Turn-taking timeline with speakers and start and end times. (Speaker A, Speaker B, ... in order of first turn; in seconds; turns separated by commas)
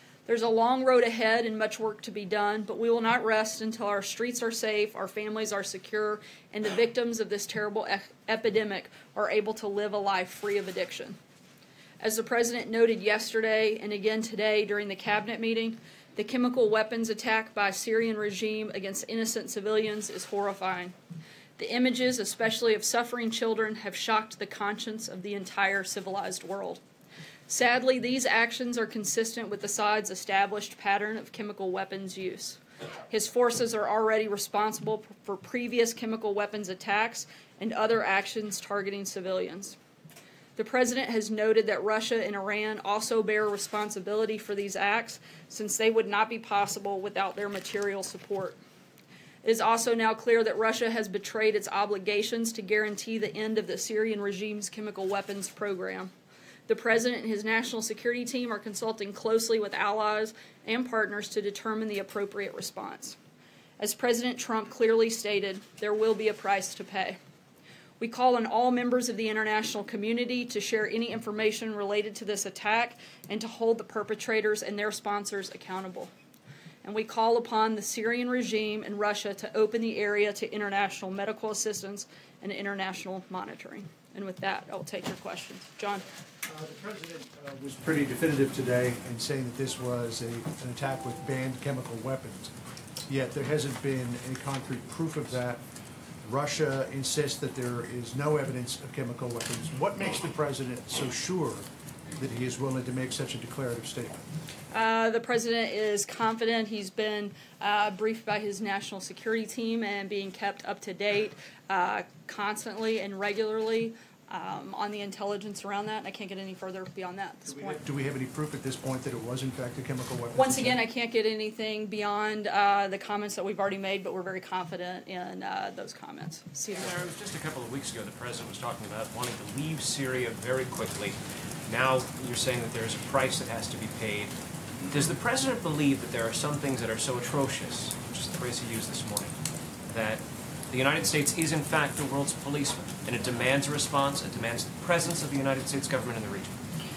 Speaker A: 0.2-11.2, Speaker A: 12.0-20.9, Speaker A: 21.6-26.8, Speaker A: 27.5-39.8, Speaker A: 40.5-48.6, Speaker A: 49.4-56.1, Speaker A: 56.7-63.2, Speaker A: 63.8-67.2, Speaker A: 68.0-76.1, Speaker A: 76.8-86.0, Speaker B: 86.5-92.5, Speaker B: 93.1-95.6, Speaker B: 96.2-101.6, Speaker B: 102.2-104.2, Speaker A: 104.7-117.8, Speaker B: 117.5-120.8, Speaker A: 120.3-127.1, Speaker C: 126.8-131.2, Speaker C: 131.7-134.3, Speaker C: 134.9-139.3, Speaker C: 139.9-140.2, Speaker C: 140.7-146.5